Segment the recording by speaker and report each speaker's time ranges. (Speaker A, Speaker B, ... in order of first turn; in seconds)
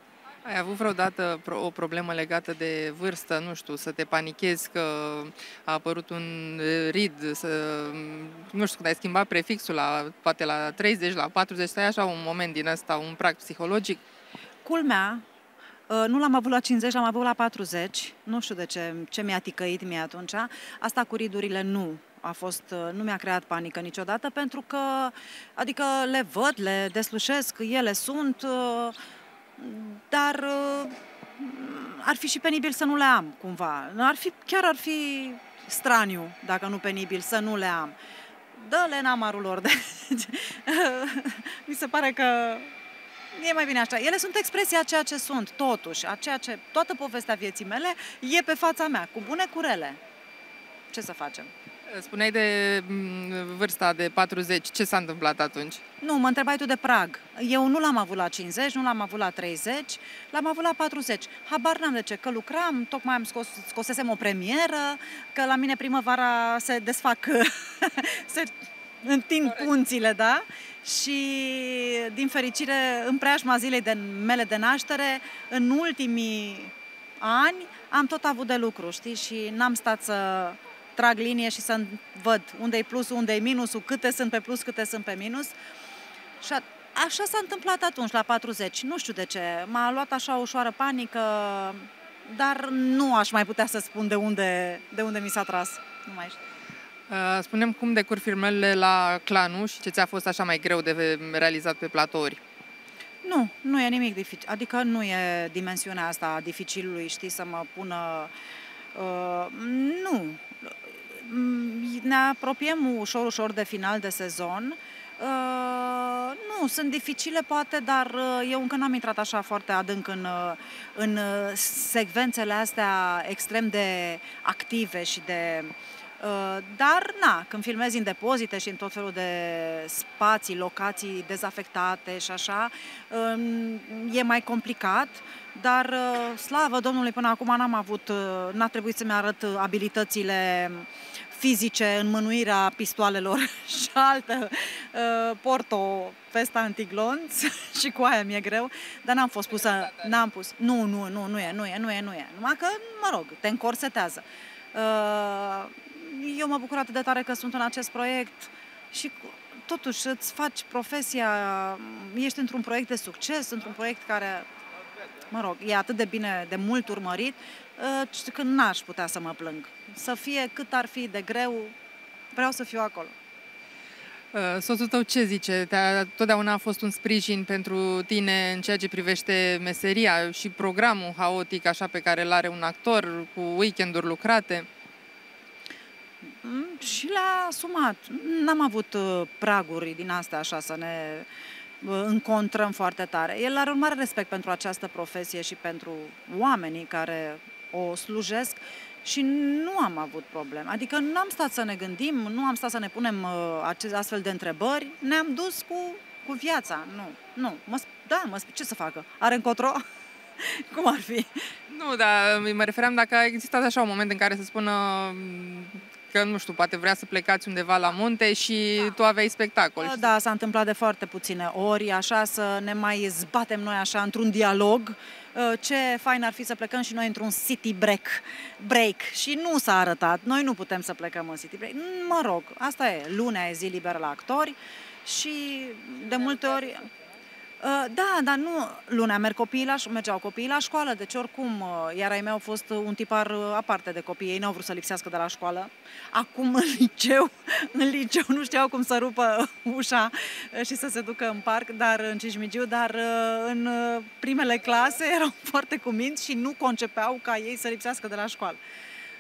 Speaker A: 0.4-14.0, 51.9-55.8, 97.1-102.4, 174.3-184.7, 211.7-220.0
Speaker B: 14.6-15.2, 15.9-29.0, 29.6-37.9, 38.5-42.7, 43.3-50.0, 50.9-51.5, 56.0-85.5, 86.4-96.4, 103.2-108.3, 108.9-164.4, 165.3-171.7, 172.3-173.1, 186.4-191.3, 191.8-209.8, 210.4-211.3, 219.8-236.9, 237.6-258.6